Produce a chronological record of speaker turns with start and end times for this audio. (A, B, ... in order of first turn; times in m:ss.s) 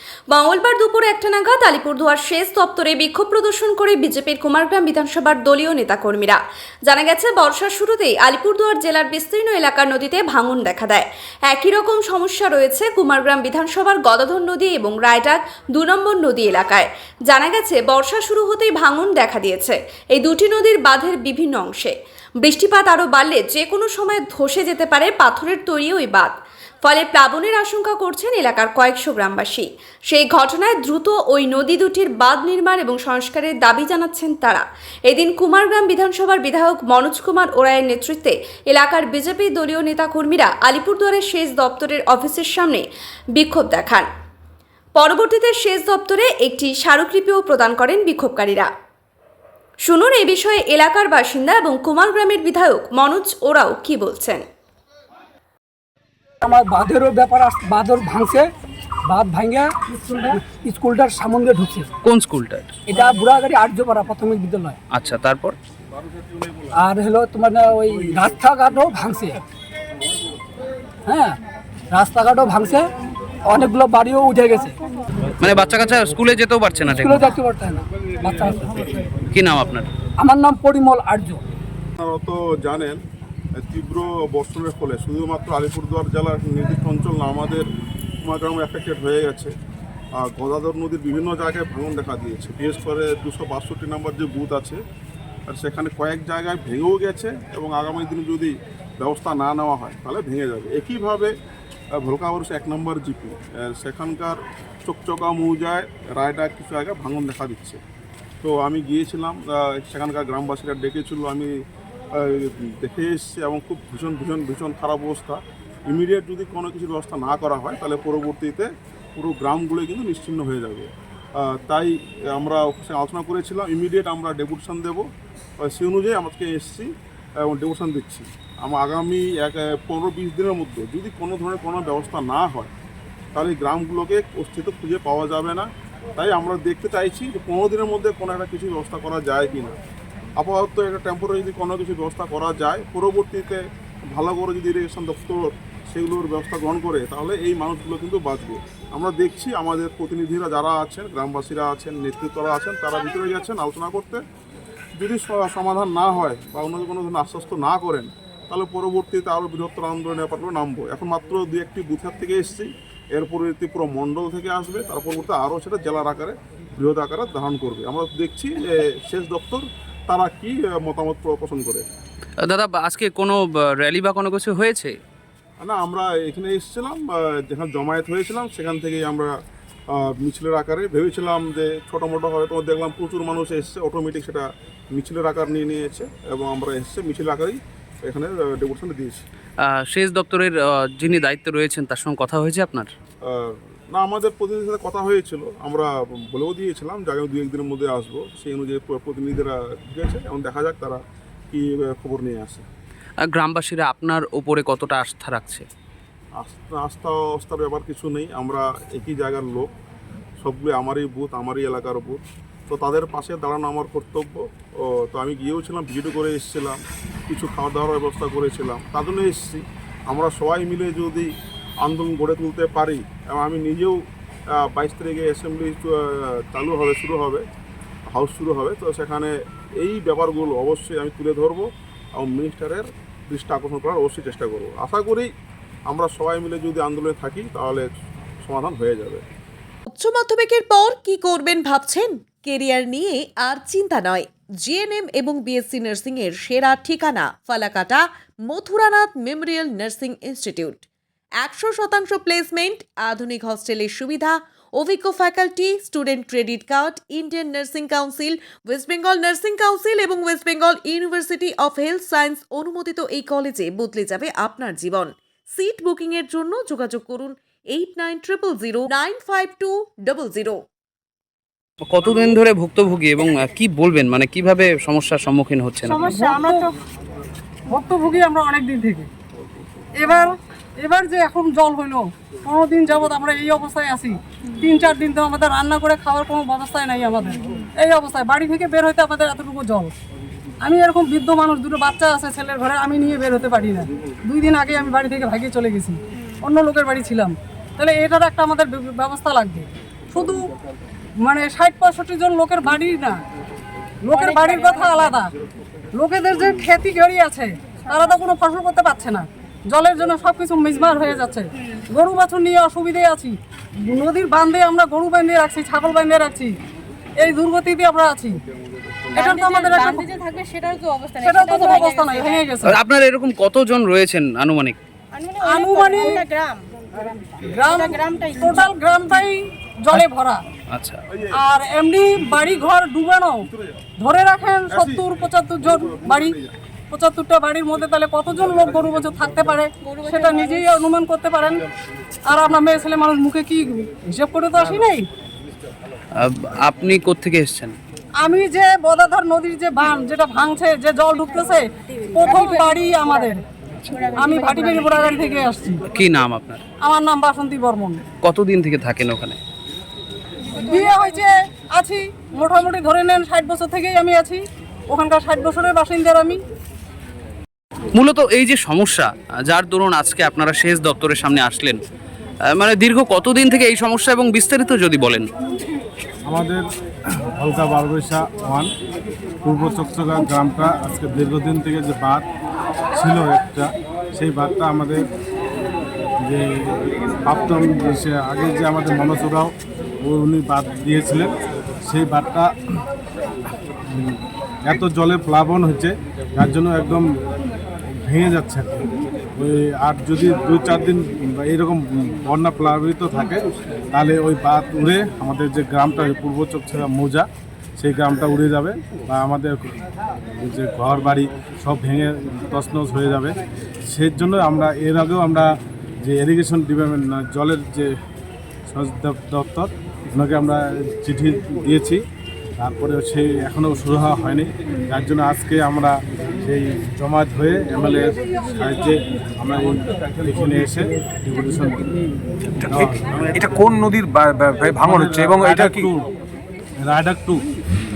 0:00.3-0:26.3 A
0:26.8-0:44.1 A
0:45.0-0:48.7 A
0:49.8-0:54.4 A
0:56.4-0:58.5 B
0:59.0-0:59.8 B
0:59.9-1:00.4 C
1:00.3-1:01.9 B
1:02.0-1:02.7 D
1:02.9-1:04.8 B
1:04.9-1:05.5 D
1:06.7-1:09.4 B
1:11.0-1:11.4 B
1:11.9-1:12.9 B
1:13.4-1:14.8 B
1:15.4-1:17.3 D
1:16.9-1:19.0 B
1:19.3-1:19.9 D
1:20.2-1:21.4 B
1:22.0-1:23.0 E
1:23.6-1:27.6 E
1:28.2-1:29.5 E
1:30.2-1:34.8 E
1:35.5-1:41.3 E
1:41.9-1:47.8 E
1:48.4-1:51.5 E
1:52.2-2:05.1 E
2:05.6-2:12.7 E
2:13.3-2:19.8 E
2:20.4-2:23.6 E
2:24.1-2:34.2 E
2:35.0-2:51.8 E
2:52.4-2:55.0 D
2:55.6-2:59.3 E
2:59.9-3:09.2 E
3:09.6-3:12.9 D
3:13.2-3:22.6 E
3:23.2-3:25.6 D
3:26.4-3:29.7 E
3:30.4-3:41.3 E
3:41.8-3:44.0 E
3:44.5-3:47.4 E
3:48.1-3:55.3 E
3:55.9-3:57.8 E
3:58.4-3:59.2 E
3:59.9-4:10.8 F
4:11.4-4:30.6 F
4:31.9-4:36.1 D
4:35.8-4:36.7 G
4:36.0-4:36.7 C
4:37.7-4:39.1 C
4:40.0-4:49.9 C
4:50.6-5:00.4 C
5:01.2-5:03.2 C
5:04.0-5:05.3 C
5:04.1-5:05.2 G
5:05.9-5:16.6 C
5:07.9-5:08.1 G
5:17.2-5:18.4 C
5:19.1-5:20.1 C
5:19.2-5:22.5 G
5:21.2-5:22.8 C
5:22.6-5:24.8 D
5:25.1-5:28.7 G
5:25.4-5:26.2 C
5:27.4-5:30.4 C
5:30.7-5:31.0 D
5:31.1-5:31.3 E
5:31.3-5:33.5 C
5:33.5-5:33.8 E
5:34.0-5:36.4 C
5:34.7-5:36.5 E
5:36.9-5:41.6 C
5:39.8-5:40.8 G
5:42.2-5:45.1 C
5:46.2-5:47.8 D
5:48.2-5:53.4 C
5:52.2-5:53.3 G
5:53.9-5:55.2 G
5:54.1-5:55.8 C
5:55.9-5:56.6 D
5:56.8-5:58.0 C
5:58.2-5:59.4 D
6:00.5-6:06.4 C
6:00.7-6:01.1 G
6:07.9-6:11.8 D
6:12.5-6:15.3 D
6:16.2-6:16.6 H
6:17.2-6:18.7 H
6:19.4-6:22.2 H
6:23.0-6:25.0 H
6:26.2-6:32.6 H
6:33.9-6:37.1 H
6:37.9-6:47.2 H
6:47.8-6:49.8 H
6:50.4-6:58.0 H
6:58.7-7:02.0 H
7:02.6-7:11.9 H
7:12.6-7:15.9 I
7:12.7-7:13.4 H
7:14.8-7:16.1 H
7:16.8-7:17.4 H